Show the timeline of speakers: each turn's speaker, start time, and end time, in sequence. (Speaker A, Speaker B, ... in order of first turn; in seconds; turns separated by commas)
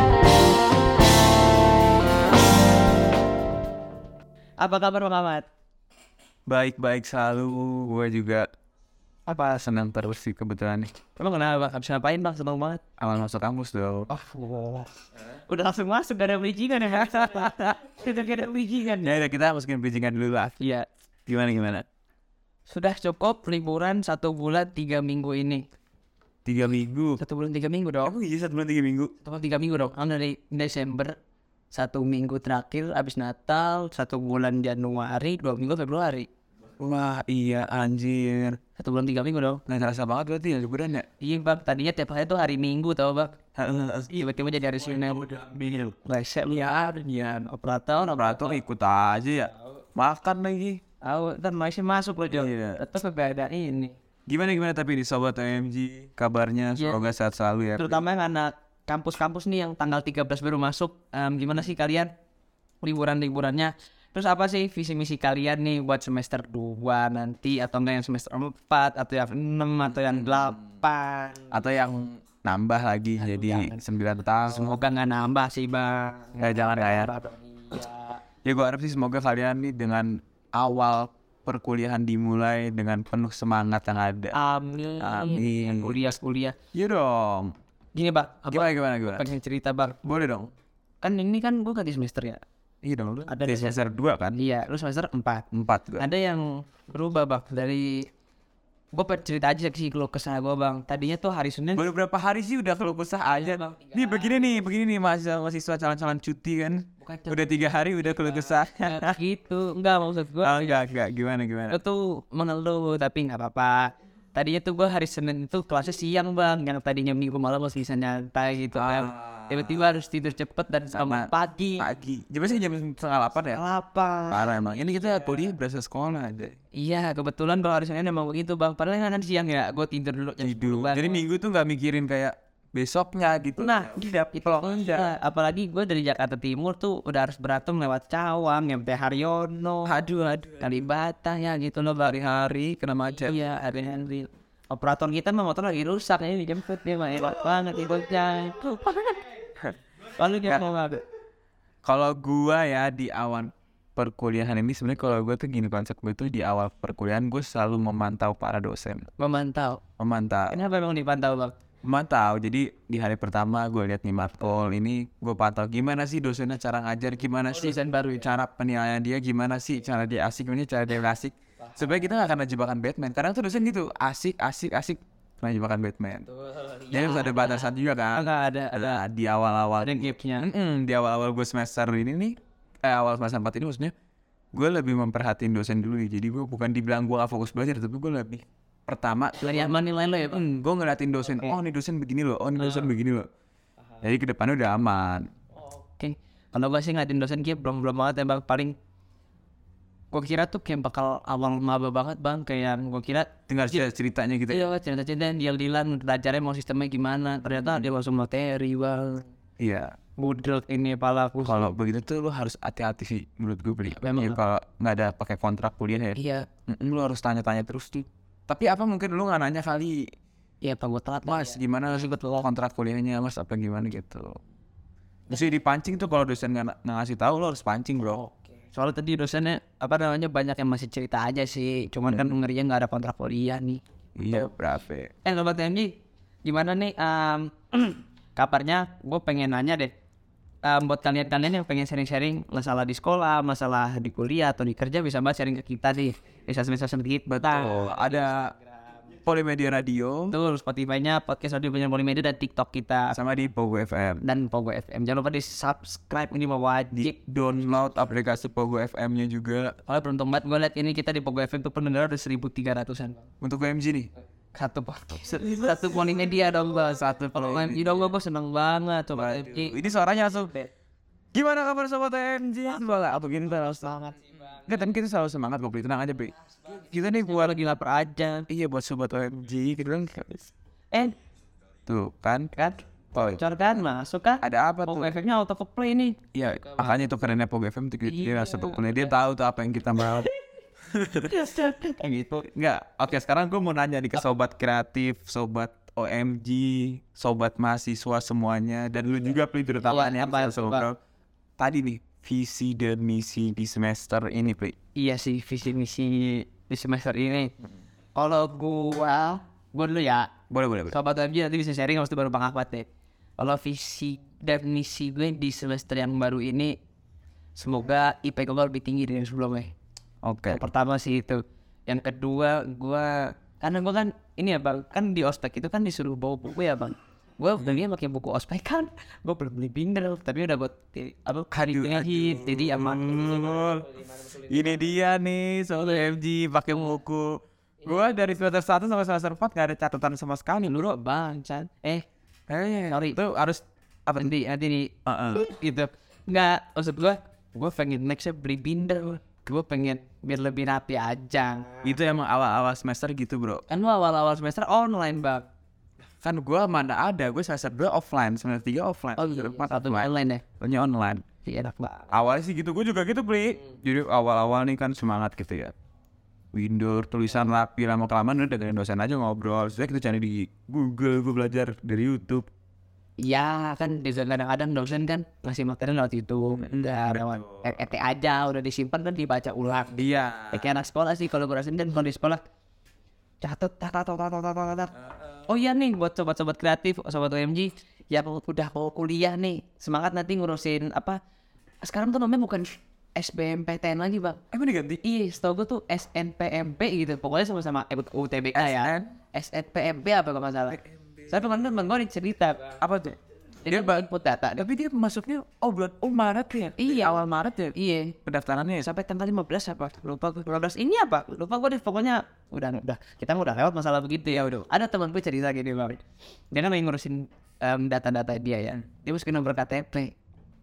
Speaker A: 4.6-5.5, Speaker B: 6.5-8.5, Speaker B: 9.3-11.0, Speaker A: 11.1-12.9, Speaker B: 13.0-14.1, Speaker A: 14.1-19.1, Speaker B: 19.0-20.6, Speaker A: 20.6-20.9, Speaker B: 21.3-21.9, Speaker A: 22.7-25.6, Speaker B: 26.4-27.2, Speaker A: 27.2-28.1, Speaker B: 28.0-29.1, Speaker A: 29.2-31.2, Speaker A: 31.7-36.3, Speaker B: 36.8-38.6, Speaker A: 38.7-39.6, Speaker B: 39.7-41.1, Speaker A: 41.2-43.5, Speaker B: 43.5-44.1, Speaker A: 44.0-48.6, Speaker B: 48.1-50.8, Speaker A: 51.0-53.9, Speaker B: 52.3-52.9, Speaker B: 54.3-58.0, Speaker A: 57.8-62.1, Speaker A: 62.8-71.6, Speaker B: 70.0-70.5, Speaker B: 71.5-74.8, Speaker A: 73.2-73.8, Speaker A: 74.4-78.2, Speaker B: 76.4-77.2, Speaker B: 78.4-84.3, Speaker A: 84.3-86.6, Speaker B: 85.0-86.1, Speaker B: 86.7-87.5, Speaker A: 87.9-90.1, Speaker B: 88.5-89.3, Speaker B: 90.0-90.5, Speaker A: 91.0-92.4, Speaker B: 92.8-94.4, Speaker A: 93.3-93.7, Speaker A: 94.3-95.5, Speaker B: 95.5-96.1, Speaker A: 96.0-98.1, Speaker A: 98.9-101.9, Speaker B: 101.7-109.2, Speaker A: 103.4-104.5, Speaker A: 107.0-107.6, Speaker A: 108.2-110.8, Speaker B: 110.4-111.8, Speaker A: 111.7-121.9, Speaker B: 118.8-119.7, Speaker B: 120.9-123.6, Speaker A: 123.5-124.5, Speaker B: 124.3-126.6, Speaker A: 126.8-131.3, Speaker B: 130.4-135.1, Speaker A: 133.6-142.5, Speaker B: 139.8-140.6, Speaker B: 142.2-143.4, Speaker A: 143.1-149.3, Speaker A: 150.0-151.0, Speaker B: 151.8-159.1, Speaker A: 159.2-159.9, Speaker B: 159.9-160.6, Speaker A: 160.5-161.6, Speaker B: 161.8-176.3, Speaker A: 167.5-168.3, Speaker A: 176.4-179.0, Speaker B: 176.9-183.9, Speaker A: 179.8-180.5, Speaker B: 184.5-189.8, Speaker A: 189.4-190.4, Speaker B: 190.3-193.3, Speaker A: 191.2-191.6, Speaker B: 194.0-195.3, Speaker A: 195.6-198.8, Speaker A: 200.1-203.8, Speaker B: 203.5-204.7, Speaker A: 204.5-209.3, Speaker B: 209.6-210.0, Speaker A: 210.2-211.7, Speaker B: 211.4-220.0, Speaker A: 213.9-214.4, Speaker A: 216.2-216.5, Speaker A: 220.6-222.1, Speaker B: 221.2-224.4, Speaker B: 225.3-228.2, Speaker A: 228.1-233.8, Speaker B: 234.2-235.1, Speaker A: 235.2-235.9, Speaker A: 236.4-239.9, Speaker A: 240.6-249.0, Speaker B: 247.3-248.5, Speaker B: 249.2-250.4, Speaker A: 250.3-253.2, Speaker B: 253.1-254.2, Speaker A: 254.2-257.2, Speaker B: 256.9-259.8, Speaker A: 259.9-263.2, Speaker B: 263.4-264.1, Speaker A: 264.6-269.9, Speaker B: 265.4-265.7, Speaker B: 266.9-268.1, Speaker B: 269.1-270.5, Speaker B: 271.3-277.6, Speaker A: 273.8-274.8, Speaker A: 276.6-278.5, Speaker B: 278.5-280.5, Speaker B: 281.9-282.5, Speaker A: 282.5-286.9, Speaker B: 283.1-283.4, Speaker B: 284.4-285.1, Speaker B: 286.3-291.3, Speaker A: 288.0-289.1, Speaker A: 291.2-292.5, Speaker B: 292.4-300.9, Speaker A: 299.8-300.9, Speaker B: 301.6-304.8, Speaker A: 304.9-307.5, Speaker A: 308.1-312.9, Speaker B: 310.5-311.0, Speaker A: 313.4-316.7, Speaker A: 317.6-319.7, Speaker B: 320.2-320.7, Speaker A: 320.5-334.2, Speaker B: 331.5-337.3, Speaker B: 337.8-340.8, Speaker A: 340.6-342.1, Speaker B: 342.5-344.2, Speaker A: 342.9-343.2, Speaker A: 344.1-352.0, Speaker B: 345.1-345.5, Speaker B: 351.8-353.6, Speaker A: 353.7-355.5, Speaker B: 356.2-361.3, Speaker A: 359.2-360.5, Speaker A: 361.3-362.1, Speaker B: 362.1-365.7, Speaker B: 366.5-372.5, Speaker A: 373.2-382.4, Speaker B: 376.5-377.7, Speaker B: 379.9-380.7, Speaker A: 383.4-384.9, Speaker A: 385.5-391.2, Speaker A: 391.8-394.4, Speaker B: 394.5-395.0, Speaker A: 395.0-402.8, Speaker B: 398.5-399.2, Speaker B: 402.8-408.9, Speaker A: 403.6-404.7, Speaker A: 406.8-408.2, Speaker A: 408.8-420.1, Speaker B: 414.3-414.7